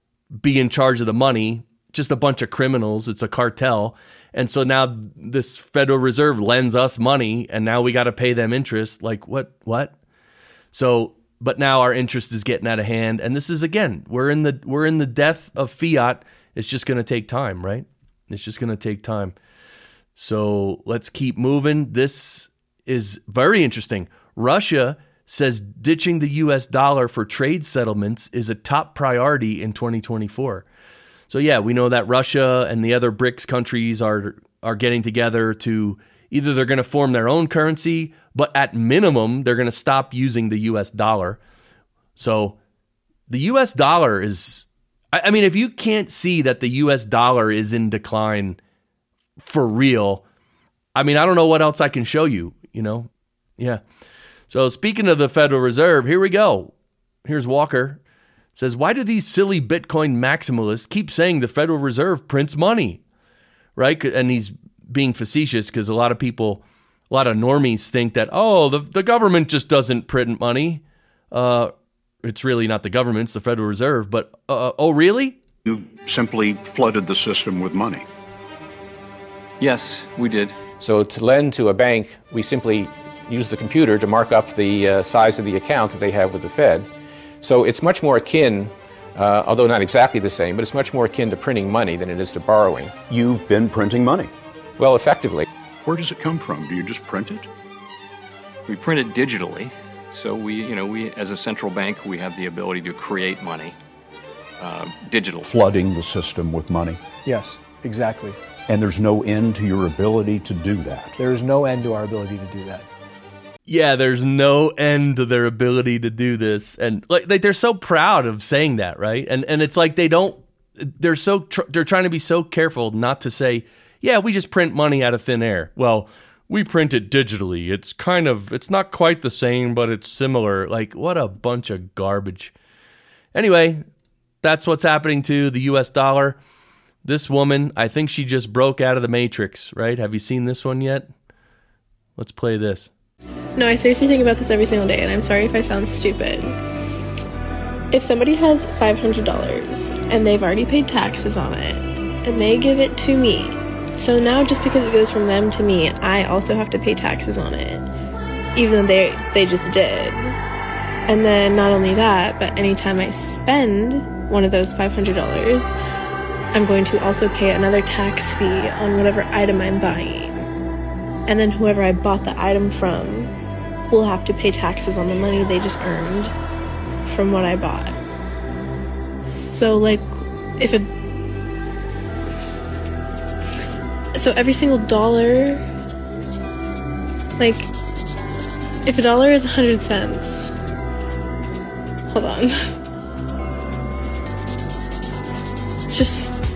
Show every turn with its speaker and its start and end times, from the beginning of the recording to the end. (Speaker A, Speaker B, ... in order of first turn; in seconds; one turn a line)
Speaker A: 0.4-10.0
Speaker A: 10.7-19.4
Speaker A: 20.1-30.6
Speaker A: 31.3-41.4
Speaker A: 42.2-42.6
Speaker A: 43.3-48.6
Speaker A: 49.4-50.2
Speaker A: 51.0-53.8
Speaker A: 54.5-56.7
Speaker A: 57.2-58.0
Speaker A: 58.6-63.0
Speaker A: 63.8-71.7
Speaker A: 72.2-75.4
Speaker B: 75.7-78.1
Speaker C: 79.6-80.6
Speaker D: 80.8-86.9
Speaker D: 87.4-92.9
Speaker B: 93.1-94.3
Speaker D: 94.8-95.5
Speaker B: 95.8-97.5
Speaker C: 98.7-103.8
Speaker C: 104.6-105.5
Speaker B: 105.4-107.0
Speaker E: 107.2-108.4
Speaker B: 108.7-111.1
Speaker E: 111.2-112.9
Speaker A: 113.7-132.5
Speaker A: 133.3-133.8
Speaker A: 134.4-136.4
Speaker A: 137.0-141.1
Speaker A: 142.2-142.9
Speaker F: 143.6-146.6
Speaker F: 147.9-157.9
Speaker F: 158.6-160.4
Speaker F: 161.1-165.7
Speaker F: 166.5-170.5
Speaker F: 171.3-173.3
Speaker F: 173.9-176.3
Speaker F: 177.1-178.0
Speaker F: 179.2-180.9
Speaker F: 184.2-185.6
Speaker F: 187.4-187.7
Speaker F: 188.8-190.5
Speaker F: 192.1-192.5
Speaker F: 195.9-196.4